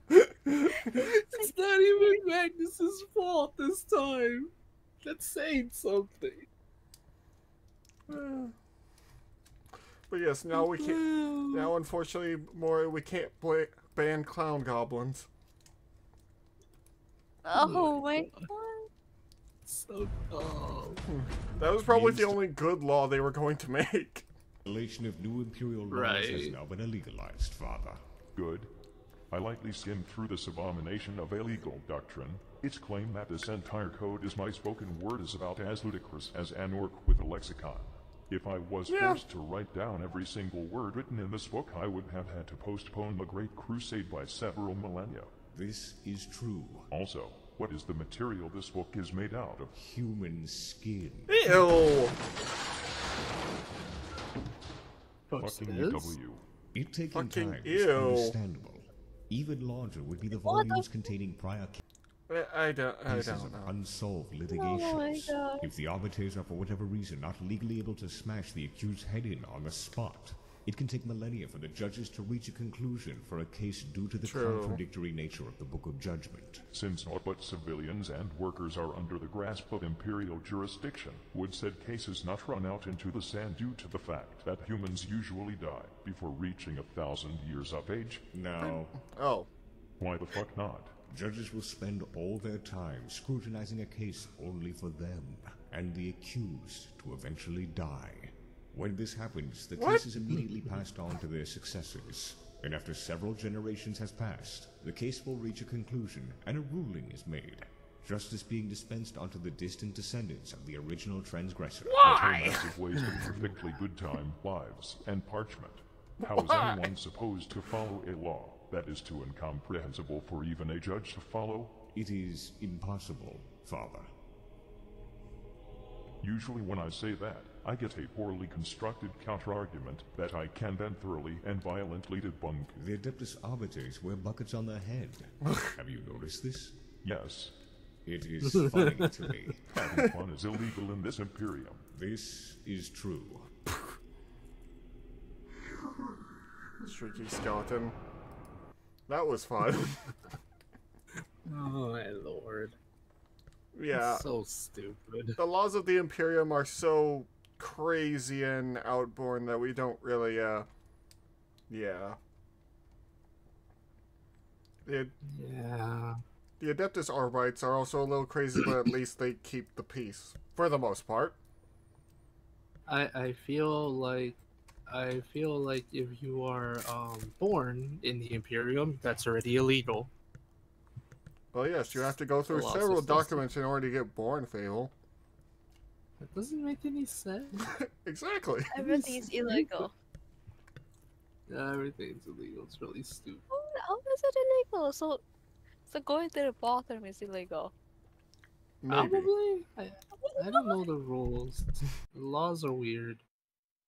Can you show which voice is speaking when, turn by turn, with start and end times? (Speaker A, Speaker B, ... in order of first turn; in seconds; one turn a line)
Speaker A: 0.1-1.0
Speaker B: 0.9-6.5
Speaker C: 1.4-2.2
Speaker A: 8.1-8.5
Speaker A: 10.1-15.3
Speaker B: 10.5-11.7
Speaker C: 17.4-18.9
Speaker B: 17.6-18.5
Speaker B: 19.7-21.0
Speaker A: 21.1-24.3
Speaker D: 21.9-22.4
Speaker D: 24.7-28.0
Speaker B: 25.9-26.6
Speaker E: 28.4-28.7
Speaker E: 29.3-45.3
Speaker A: 38.9-39.2
Speaker D: 45.5-46.9
Speaker E: 46.9-49.7
Speaker D: 49.7-51.4
Speaker A: 51.3-52.2
Speaker B: 55.3-56.1
Speaker E: 55.4-56.4
Speaker D: 56.7-61.8
Speaker A: 57.1-58.4
Speaker C: 60.4-60.9
Speaker A: 62.3-63.7
Speaker D: 63.1-76.6
Speaker C: 64.5-65.7
Speaker A: 74.2-74.8
Speaker E: 76.7-88.2
Speaker D: 88.3-89.0
Speaker A: 88.6-89.5
Speaker E: 90.0-91.0
Speaker D: 91.1-112.6
Speaker A: 99.8-100.1
Speaker E: 112.0-121.8
Speaker A: 116.2-116.8
Speaker D: 121.9-124.1
Speaker E: 126.2-132.7
Speaker D: 132.7-136.9
Speaker E: 137.0-137.6
Speaker D: 138.0-139.8
Speaker B: 138.4-139.3
Speaker E: 139.7-141.8
Speaker D: 141.9-143.5
Speaker A: 146.8-148.0
Speaker A: 149.1-150.0
Speaker B: 151.5-152.8
Speaker A: 153.7-154.3
Speaker B: 153.9-155.4
Speaker A: 155.4-160.7
Speaker A: 161.7-162.2
Speaker A: 164.9-165.1
Speaker B: 165.3-166.2
Speaker A: 166.6-171.4
Speaker B: 172.9-180.1
Speaker A: 181.5-184.9
Speaker B: 182.0-183.4
Speaker B: 186.2-187.7
Speaker A: 187.6-189.2
Speaker C: 188.7-189.9
Speaker B: 189.4-189.9
Speaker B: 191.5-193.4
Speaker C: 193.5-195.2
Speaker C: 195.8-197.7
Speaker A: 198.8-199.3
Speaker B: 198.9-203.2
Speaker C: 200.2-200.8